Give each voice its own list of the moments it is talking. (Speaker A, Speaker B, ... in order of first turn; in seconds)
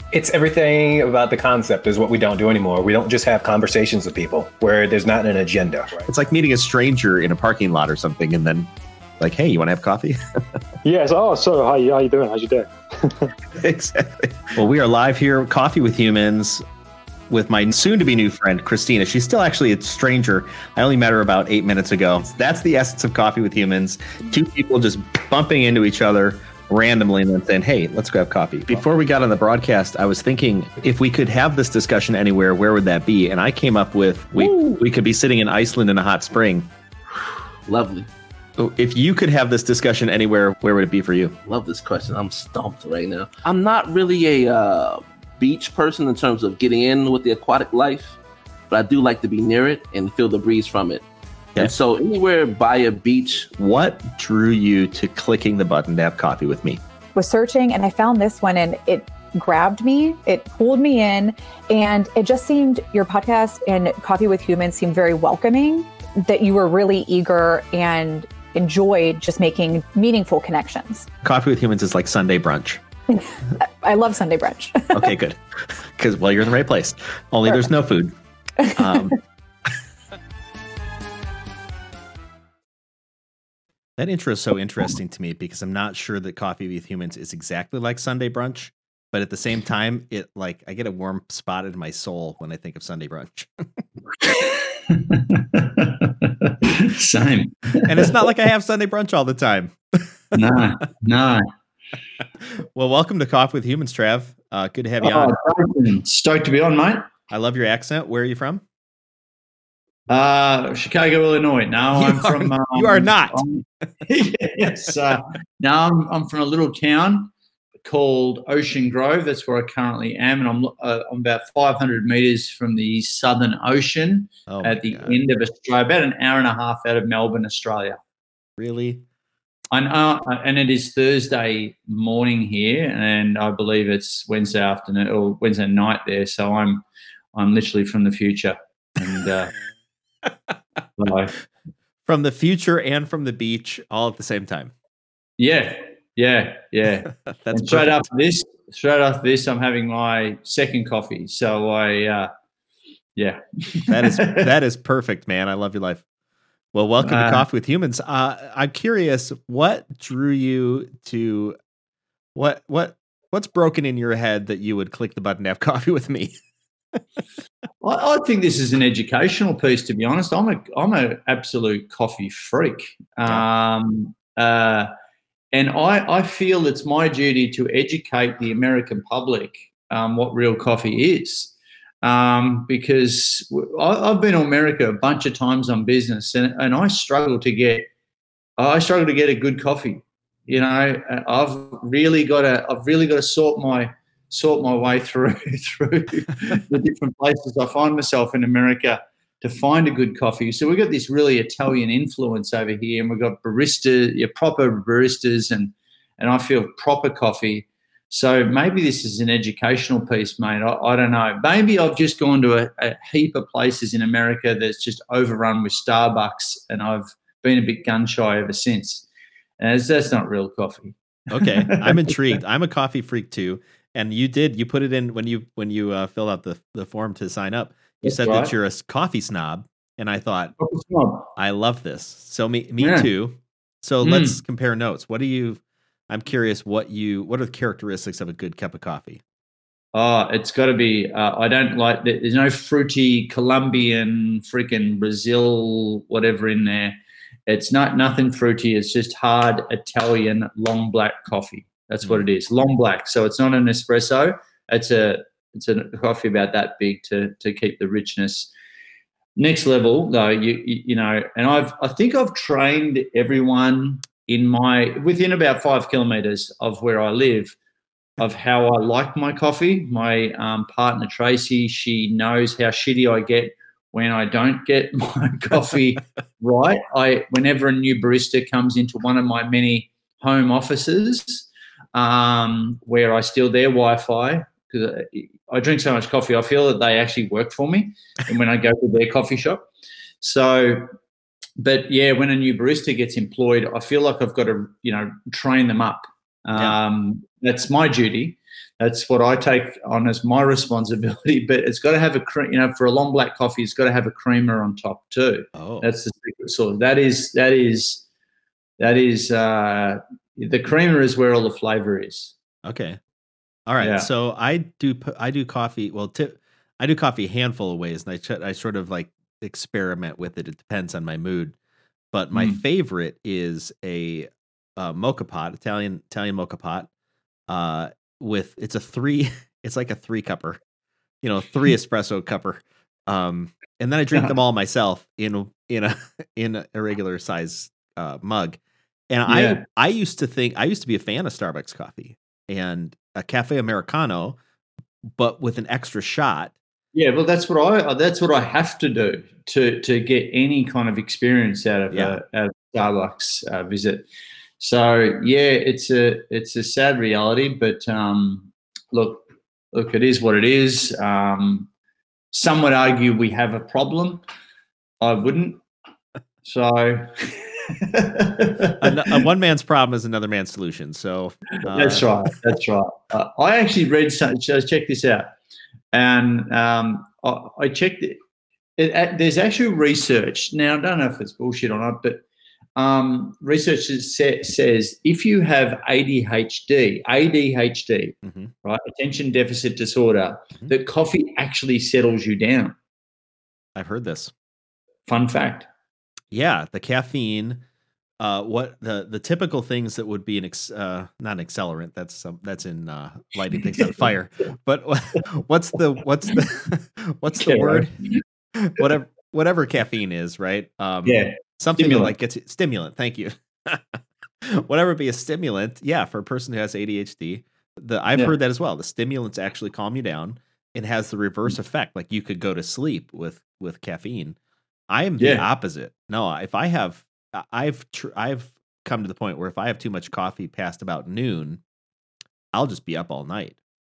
Speaker A: 0.1-6.0
Speaker B: 6.1-8.7, 9.2-10.2, 13.6-16.6, 17.3-36.7, 38.6-41.3, 53.6-56.8, 71.2-72.8, 74.9-78.1, 78.7-79.2, 84.0-93.6, 97.8-100.1, 102.4-105.3, 107.3-108.6, 111.9-113.4, 124.5-125.2, 128.6-129.0, 142.0-144.7, 147.1-148.0, 153.9-156.0, 156.7-161.6, 162.3-166.3, 221.3-230.5, 231.3-239.2, 305.5-305.9, 312.6-313.0, 313.7-321.5, 322.1-326.9, 327.5-330.6, 331.2-338.6, 339.1-344.4, 345.1-346.5, 351.9-352.2, 368.8-372.1, 388.2-388.5, 393.8-394.3, 396.3-397.6, 398.2-408.0, 408.5-424.4, 424.9-431.6, 432.5-433.6
Speaker C: 10.8-13.3
Speaker D: 34.4-34.7, 37.6-38.1, 41.4-48.2, 48.7-51.0, 51.6-53.5
Speaker E: 57.1-71.1, 73.6-75.1
Speaker F: 94.2-98.2, 100.3-101.5, 105.0-107.1, 110.1-128.0, 129.7-139.5, 141.0-141.3, 145.4-152.3, 153.2-154.5, 157.0-157.4, 167.8-174.9, 175.5-187.9, 188.6-219.1, 219.6-222.1, 228.0-228.5, 230.6-231.3, 232.8-233.1, 234.0-234.4, 239.9-258.5, 259.4-267.6, 268.2-289.6, 290.2-290.9, 291.6-308.0, 308.8-312.3, 313.8-314.1, 322.3-322.6, 339.3-339.6, 346.9-354.1, 354.6-361.7, 362.3-364.2, 365.0-365.6, 366.4-369.2, 371.7-375.3, 375.9-378.2, 378.8-382.2, 382.8-392.7, 395.1-395.7, 407.4-408.2, 411.0-412.1, 425.2-425.4